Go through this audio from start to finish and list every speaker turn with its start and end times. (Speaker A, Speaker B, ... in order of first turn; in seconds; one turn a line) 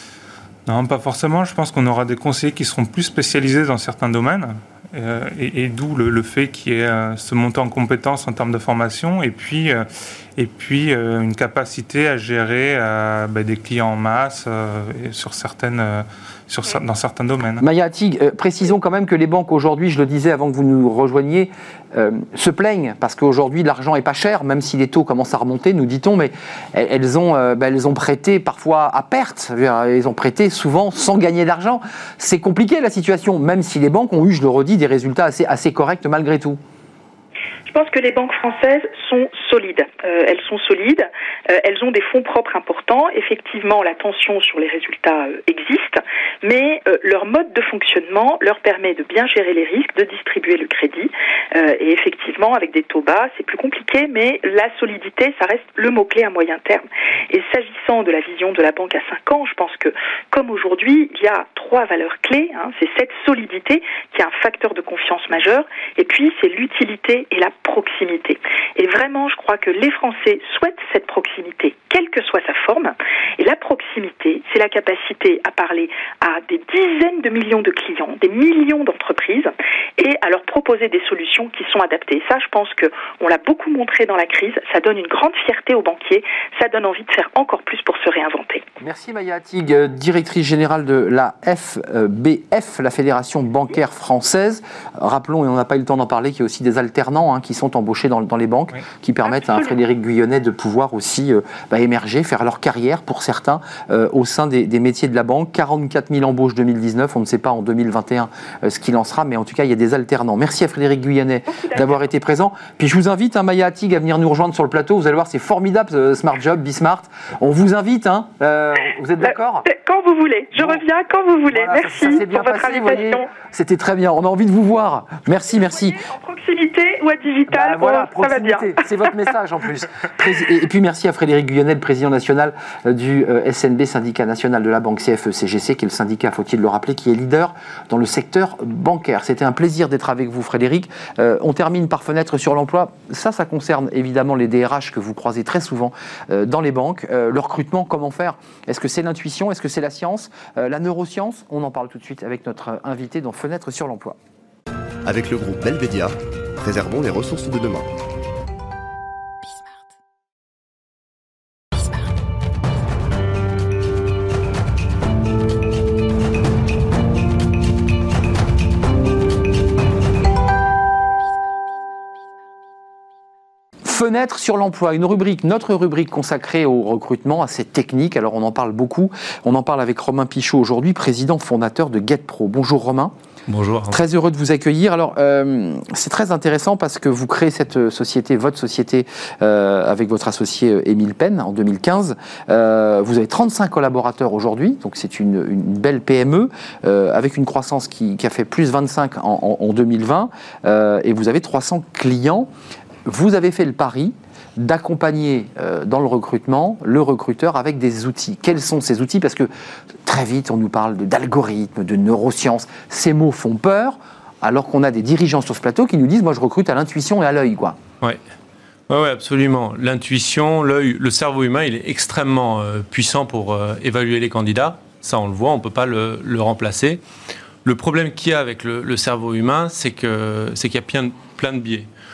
Speaker A: 0.7-9.8
Speaker A: 10.4-17.6
Speaker B: 17.6-36.6
Speaker C: 37.7-88.6
Speaker B: 88.8-119.7
Speaker C: 111.5-111.9
Speaker C: 119.2-123.3
Speaker B: 120.5-120.8
Speaker B: 121.5-126.0
Speaker C: 125.5-129.3
Speaker B: 127.5-154.2
Speaker D: 155.1-157.9
Speaker B: 173.8-183.1
Speaker E: 183.5-184.0
Speaker B: 183.9-202.5
Speaker B: 203.1-209.5
Speaker B: 210.0-217.8
Speaker E: 218.9-227.0
Speaker E: 227.6-231.9